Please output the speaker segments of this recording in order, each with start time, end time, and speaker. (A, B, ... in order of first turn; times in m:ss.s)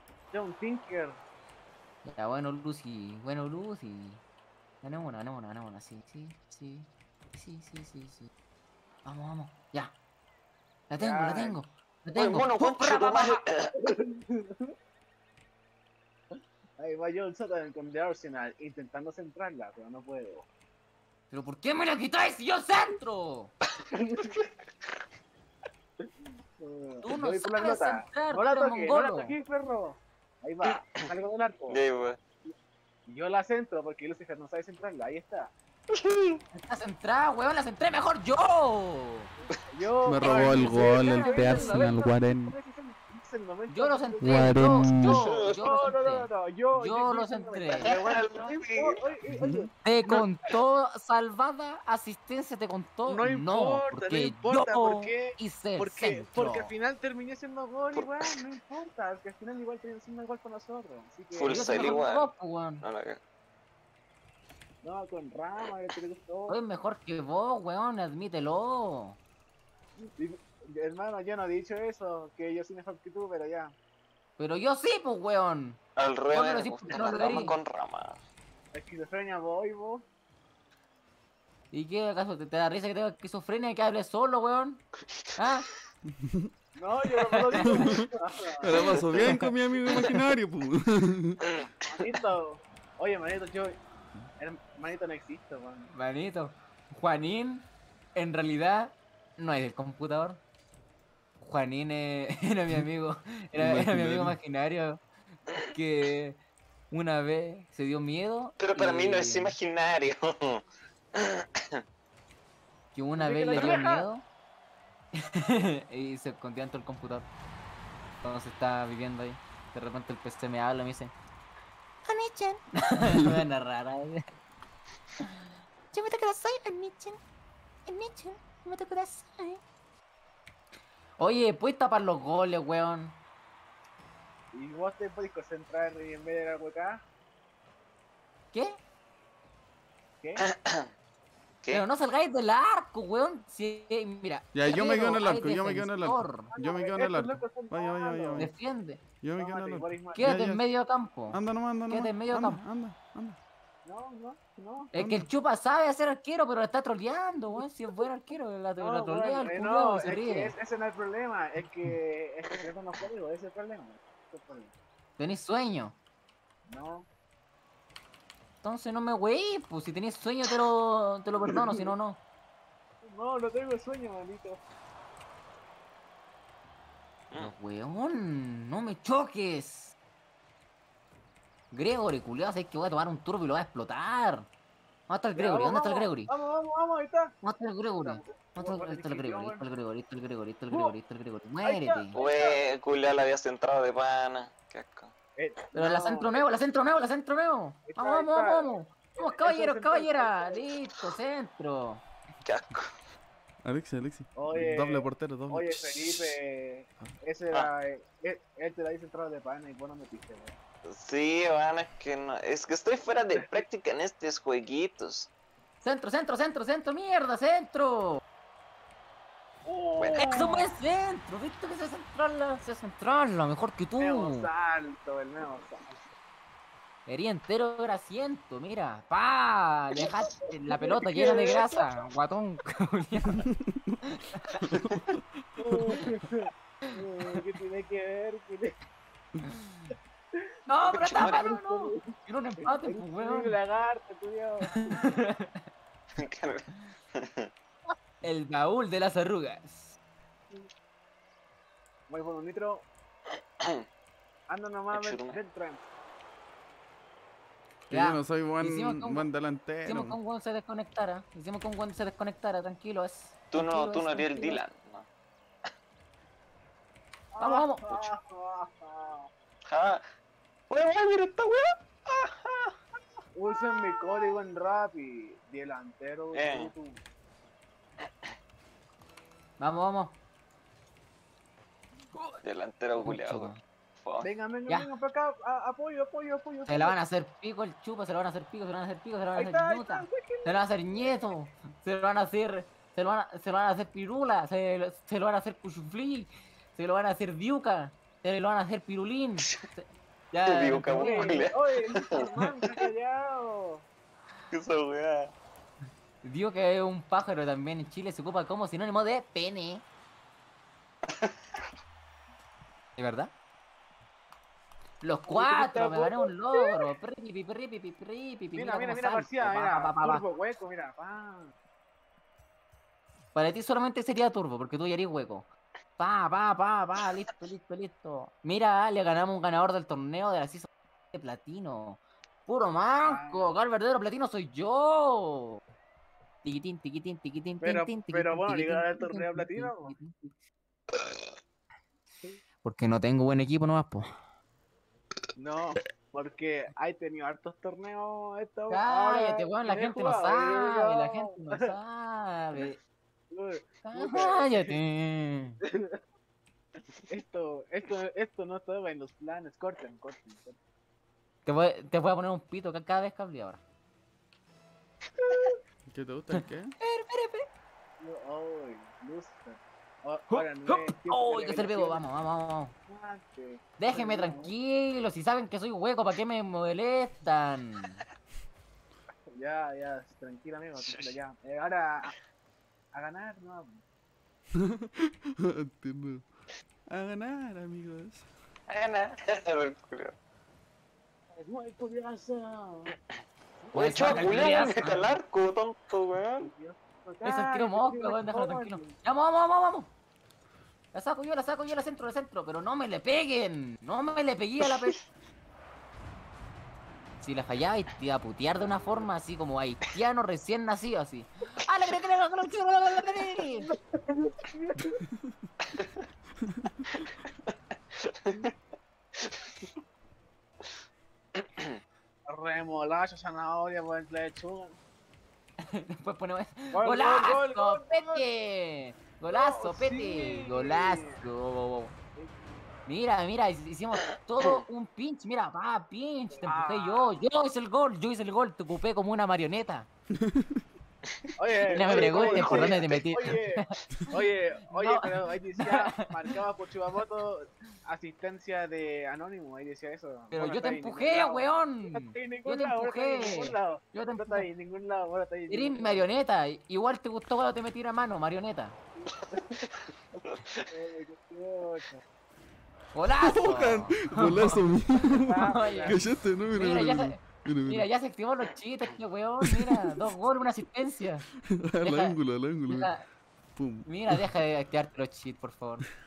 0:00.3-0:01.2 A
0:02.0-0:04.2 B
0:04.8-0:08.3 B
0:09.0-0:09.9 B
0:10.9-0:13.4 B
0:11.0-0:11.6 A
0:12.2-0:13.8 C
0:13.8-0:14.7 A
0:16.8-0:20.5 A
0:21.3-0:23.5 B
0:24.0-0:24.3 A
0:24.0-0:24.5 C
0:26.0-0:31.8 A
0:27.0-0:29.3 B
0:31.7-0:32.2 C
0:33.1-0:35.5 A
0:35.9-0:36.4 C
0:36.5-0:39.3 B
0:39.7-0:50.2 A
0:40.0-0:42.6 D
0:40.2-0:41.9 B
0:43.7-0:47.9 B
0:44.2-0:45.2 D
0:45.0-0:45.6 C
0:47.8-0:49.0 C
0:49.3-0:49.7 D
0:49.8-0:56.7 B
0:53.1-1:02.0 A
0:57.9-0:58.3 C
1:01.3-1:02.3 C
1:01.5-1:02.8 B
1:02.8-1:03.2 C
1:04.8-1:06.6 A
1:06.5-1:09.2 B
1:10.0-1:13.8 A
1:14.4-1:15.8 B
1:16.0-1:18.2 C
1:16.3-1:17.6 B
1:16.9-1:17.5 A
1:18.7-1:20.0 A
1:21.7-1:24.8 B
1:25.4-1:25.7 B
1:26.1-1:26.5 D
1:26.8-1:28.9 A
1:27.2-1:28.0 B
1:27.6-1:31.5 D
1:28.9-1:29.5 B
1:31.8-1:33.8 A
1:34.4-1:35.9 A
1:35.9-1:40.4 B
1:41.4-1:46.4 B
1:43.6-1:44.4 D
1:46.9-1:49.6 B
1:48.6-1:50.6 C
1:51.2-1:51.8 C
1:52.9-1:54.2 B
1:53.2-1:54.1 A
1:53.5-1:53.8 C
1:55.2-1:57.3 B
1:58.2-2:01.1 B
2:02.0-2:04.3 B
2:05.9-2:07.2 B
2:07.9-2:09.6 B
2:11.2-2:13.2 B
2:14.5-2:17.0 A
2:20.2-2:20.5 A
2:20.4-2:20.9 C
2:21.7-2:26.5 B
2:24.5-2:28.5 D
2:26.5-2:28.5 A
2:28.4-2:29.0 B
2:29.2-2:30.6 D
2:29.4-2:30.3 A
2:30.2-2:32.6 B
2:31.3-2:33.4 D
2:33.8-2:34.9 A
2:34.9-2:40.5 B
2:35.0-2:35.3 D
2:38.8-2:44.7 A
2:45.2-2:46.0 B
2:46.7-2:47.1 A
2:48.6-2:52.2 B
2:51.4-2:51.9 A
2:53.0-2:54.6 A
2:57.4-3:00.0 B
3:01.7-3:04.5 B
3:05.1-3:06.3 B
3:05.4-3:07.3 A
3:07.4-3:12.2 B
3:08.0-3:09.6 A
3:10.7-3:11.0 A
3:11.6-3:12.6 A
3:12.2-3:15.1 C
3:15.4-3:16.5 A
3:15.8-3:22.0 B
3:17.9-3:20.6 A
3:22.4-3:22.9 C
3:23.6-3:26.4 D
3:24.4-3:30.5 A
3:30.8-3:35.3 C
3:35.8-3:38.2 B
3:39.6-3:40.8 A
3:40.0-3:40.3 C
3:40.2-3:44.5 B
3:44.0-3:46.0 A
3:47.1-3:53.5 B
3:50.0-3:51.9 A
3:53.5-3:54.0 D
3:54.6-3:56.0 D
3:55.6-3:58.8 A
4:00.7-4:03.6 B
4:01.0-4:01.5 C
4:01.2-4:05.2 A
4:04.8-4:05.6 B
4:06.2-4:07.5 C
4:08.2-4:10.0 B
4:12.1-4:12.9 A
4:14.5-4:15.8 A
4:14.9-4:15.4 C
4:17.9-4:20.2 D
4:17.9-4:19.3 B
4:19.8-4:24.6 B
4:23.5-4:25.1 C
4:27.4-4:29.3 A
4:27.4-4:28.0 B
4:29.7-4:30.0 C
4:30.7-4:32.8 C
4:33.4-4:37.0 A
4:36.3-4:36.7 C
4:39.6-4:40.2 B
4:42.4-4:44.3 C
4:43.0-4:43.6 B
4:44.2-4:47.0 A
4:46.7-5:01.5 B
4:49.4-4:51.2 A
5:00.4-5:02.8 C
5:00.9-5:03.8 A
5:04.5-5:05.3 C
5:06.2-5:09.8 B
5:11.1-5:11.3 C
5:13.0-5:13.3 B
5:15.0-5:20.3 B
5:15.3-5:16.9 A
5:18.5-5:21.5 A
5:23.3-5:35.6 B
5:33.0-5:33.5 A
5:36.4-5:40.3 B
5:37.6-5:40.0 A
5:40.9-5:41.3 C
5:42.6-5:44.1 B
5:45.4-5:51.8 A
5:48.7-5:52.8 B
5:53.3-5:54.8 A
5:53.8-5:55.6 B
5:55.6-5:56.0 A
5:57.1-6:00.6 A
6:01.5-6:03.6 B
6:05.9-6:06.8 D
6:06.8-6:07.5 B
6:08.0-6:12.0 A
6:10.3-6:12.7 B
6:12.9-6:14.5 A
6:13.8-6:18.0 B
6:19.3-6:22.2 A
6:20.8-6:21.1 C
6:22.9-6:23.8 A
6:24.6-6:26.3 D
6:26.9-6:28.3 D
6:28.7-6:30.2 C
6:31.4-6:33.0 A
6:33.6-6:34.9 A
6:33.7-6:35.2 B
6:33.7-6:36.5 C
6:36.4-6:39.0 A
6:37.2-6:39.9 B
6:40.9-6:45.0 B
6:47.2-6:53.7 B
6:53.6-6:55.0 A
6:56.4-6:56.9 D
6:57.0-6:58.5 C
6:59.2-6:59.7 C
7:01.4-7:01.8 C
7:02.3-7:04.8 A
7:05.6-7:11.9 B
7:06.7-7:08.2 A
7:09.3-7:11.2 A
7:12.9-7:19.9 B
7:16.4-7:17.2 A
7:20.1-7:20.6 D
7:21.4-7:36.1 A
7:21.7-7:26.0 B
7:21.8-7:22.8 C
7:30.3-7:34.5 B
7:35.5-7:38.8 B
7:39.3-7:40.7 C
7:40.7-7:42.0 A
7:43.0-7:46.0 B
7:43.2-7:47.9 D
7:45.2-7:46.0 A
7:46.5-7:51.2 B
7:49.4-7:49.9 D
7:51.5-7:52.9 D
7:51.8-7:52.2 B
7:52.7-7:53.0 B
7:53.6-7:54.3 D
7:53.9-7:55.8 B